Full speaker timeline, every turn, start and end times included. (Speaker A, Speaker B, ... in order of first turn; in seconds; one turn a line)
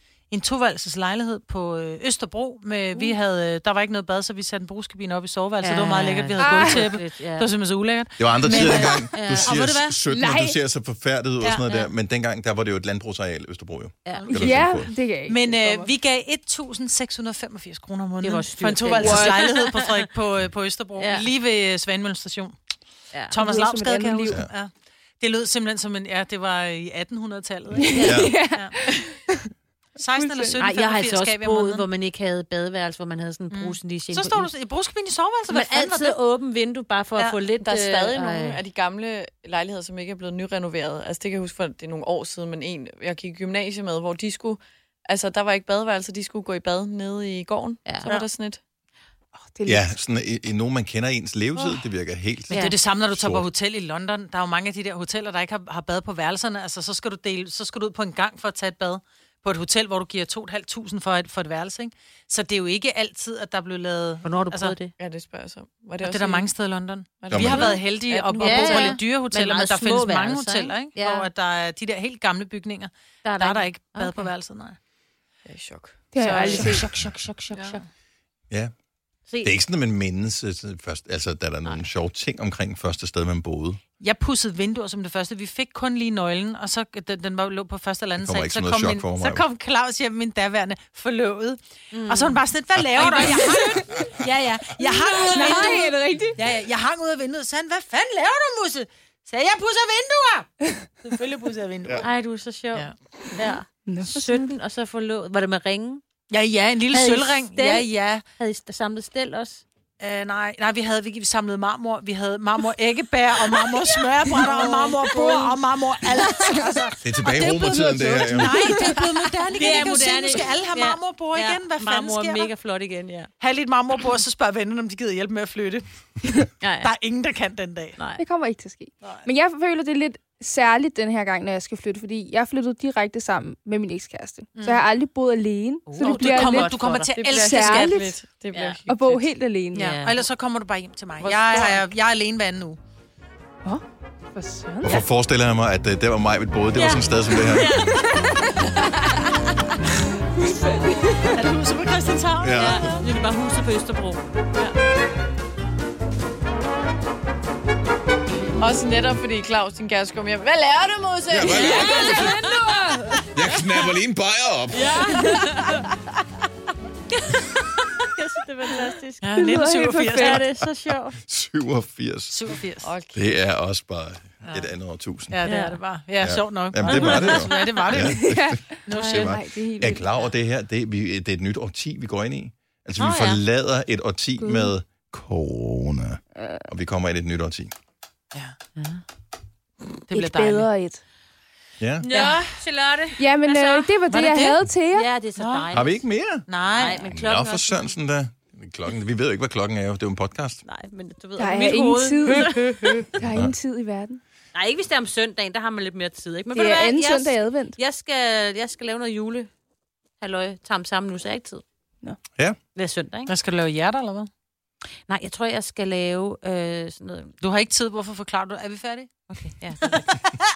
Speaker A: 0.3-9.9
Speaker B: 5.6-7.5
Speaker C: 6.4-7.0
Speaker D: 8.2-14.9
Speaker B: 8.5-9.9
Speaker C: 10.1-10.6
Speaker B: 14.1-14.4
Speaker A: 14.2-14.7
Speaker C: 14.3-15.9
Speaker A: 15.3-22.6
Speaker B: 18.2-20.0
Speaker C: 19.0-19.4
Speaker B: 21.0-21.3
Speaker B: 23.1-23.4
Speaker A: 23.3-28.8
Speaker C: 23.4-24.4
Speaker C: 27.8-29.5
Speaker B: 27.9-28.3
Speaker D: 28.0-28.4
Speaker A: 30.0-31.9
Speaker C: 30.1-30.7
Speaker B: 30.6-34.5
Speaker A: 33.5-36.2
Speaker B: 35.5-38.6
Speaker A: 37.2-37.4
Speaker E: 37.5-48.6
Speaker C: 49.4-50.0
Speaker D: 49.7-52.6
Speaker B: 52.5-52.8
Speaker A: 52.5-64.8
Speaker D: 53.1-53.5
Speaker B: 64.2-64.9
Speaker E: 65.0-66.5
Speaker A: 66.0-74.8
Speaker E: 67.2-69.0
Speaker D: 67.3-67.8
Speaker B: 68.4-71.3
Speaker B: 73.2-74.3
Speaker E: 75.5-76.9
Speaker C: 76.1-76.9
Speaker B: 76.3-77.8
Speaker E: 77.5-77.8
Speaker B: 79.3-79.6
Speaker D: 79.4-83.8
Speaker A: 84.0-100.5
Speaker D: 88.2-89.4
Speaker B: 91.9-92.4
Speaker B: 93.0-93.6
Speaker C: 93.3-94.0
Speaker C: 94.8-96.4
Speaker B: 95.2-95.8
Speaker A: 101.0-102.1
Speaker B: 102.0-106.0
Speaker C: 103.9-104.5
Speaker A: 106.3-108.2
Speaker B: 106.9-109.6
Speaker A: 110.0-122.5
Speaker B: 114.3-115.5
Speaker D: 117.0-118.6
Speaker B: 118.2-123.3
Speaker A: 123.4-125.9
Speaker B: 126.6-126.9
Speaker A: 126.8-128.0
Speaker B: 128.0-128.2
Speaker C: 128.2-136.7
Speaker A: 134.6-134.8
Speaker B: 135.9-137.2
Speaker A: 136.0-138.0
Speaker E: 136.8-139.3
Speaker C: 137.4-138.2
Speaker B: 138.5-138.8
Speaker C: 138.9-140.0
Speaker B: 139.7-140.2
Speaker A: 139.8-142.8
Speaker E: 141.2-141.9
Speaker C: 143.6-145.0
Speaker D: 144.8-147.8
Speaker B: 146.8-148.4
Speaker C: 150.4-151.2
Speaker B: 151.1-151.4
Speaker A: 151.3-153.1
Speaker D: 152.4-153.0
Speaker B: 152.5-154.3
Speaker E: 158.6-161.9
Speaker D: 161.3-162.5
Speaker C: 161.6-163.3
Speaker B: 161.7-162.5
Speaker D: 163.3-165.2
Speaker B: 164.8-165.8
Speaker C: 165.0-165.7
Speaker B: 168.2-169.3
Speaker A: 169.2-170.4
Speaker C: 169.3-170.4
Speaker B: 169.9-171.2
Speaker D: 171.2-172.4
Speaker A: 172.3-172.9
Speaker E: 172.8-173.3
Speaker D: 173.1-175.4
Speaker A: 174.4-174.7
Speaker A: 175.3-178.3
Speaker B: 175.4-175.8
Speaker D: 176.2-187.7
Speaker B: 176.8-177.7
Speaker C: 177.9-180.1
Speaker A: 178.9-179.3
Speaker B: 178.9-179.3
Speaker B: 183.0-183.4
Speaker C: 184.4-184.8
Speaker C: 186.4-186.7
Speaker B: 188.8-189.0
Speaker A: 190.1-190.7
Speaker C: 190.1-191.0
Speaker D: 191.8-192.1
Speaker B: 192.0-193.9
Speaker A: 192.1-192.5
Speaker C: 193.2-195.1
Speaker A: 194.1-194.6
Speaker B: 194.9-196.0
Speaker A: 195.4-195.7
Speaker D: 195.7-196.5
Speaker A: 196.5-197.1
Speaker B: 196.7-197.9
Speaker D: 197.1-200.6
Speaker B: 200.7-203.1
Speaker C: 201.4-204.2
Speaker D: 203.2-203.5
Speaker B: 204.6-209.5
Speaker C: 206.5-207.8
Speaker B: 210.2-211.6
Speaker B: 212.8-213.3
Speaker A: 213.3-214.3
Speaker B: 215.1-217.3
Speaker A: 217.4-220.5
Speaker B: 219.3-220.1